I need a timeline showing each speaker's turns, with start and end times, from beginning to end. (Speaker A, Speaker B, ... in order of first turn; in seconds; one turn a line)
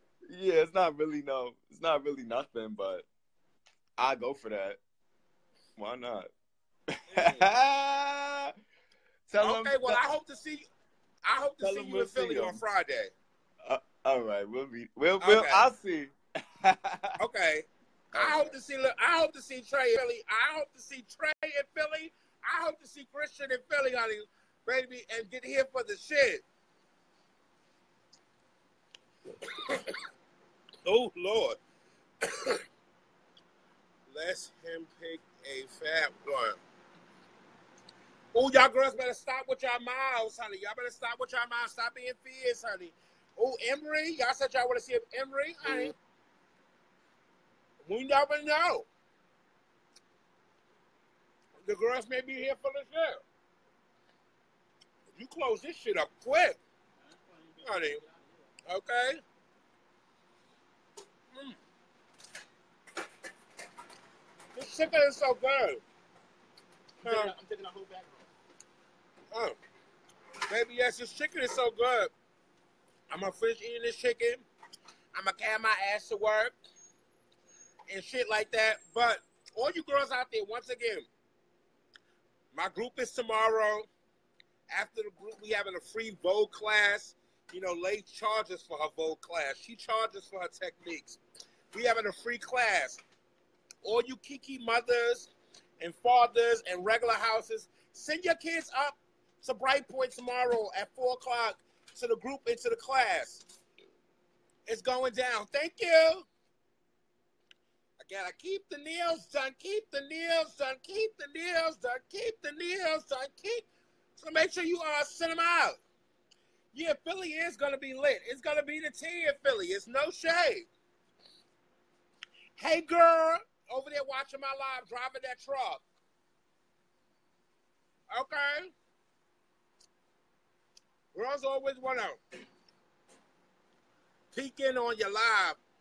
Speaker A: 0.3-3.1
Speaker A: 4.0-4.8
Speaker A: 5.8-6.3
Speaker B: 7.1-7.5
Speaker A: 7.1-8.5
Speaker A: 9.3-10.0
Speaker B: 9.4-10.6
Speaker B: 11.2-13.1
Speaker A: 11.6-12.6
Speaker A: 13.6-17.2
Speaker B: 15.2-15.7
Speaker B: 17.2-26.4
Speaker A: 18.1-18.6
Speaker B: 30.8-31.6
Speaker B: 32.2-32.6
Speaker B: 34.1-36.6
Speaker B: 38.3-45.9
Speaker A: 45.6-45.9
Speaker B: 47.8-48.9
Speaker B: 51.6-53.2
Speaker B: 55.1-56.6
Speaker C: 57.0-58.5
Speaker B: 57.6-58.0
Speaker B: 58.7-59.2
Speaker B: 64.5-65.8
Speaker C: 67.0-68.3
Speaker B: 67.0-67.3
Speaker B: 70.5-72.1
Speaker B: 73.1-74.4
Speaker B: 75.1-76.5
Speaker B: 77.9-81.1
Speaker B: 82.5-83.9
Speaker B: 84.7-91.2
Speaker B: 91.7-93.0
Speaker B: 93.8-103.4
Speaker B: 104.7-106.2
Speaker B: 108.0-113.7
Speaker B: 114.2-115.8
Speaker B: 116.7-120.7
Speaker B: 122.6-125.8
Speaker B: 128.1-128.7
Speaker B: 131.1-132.2
Speaker B: 134.3-135.6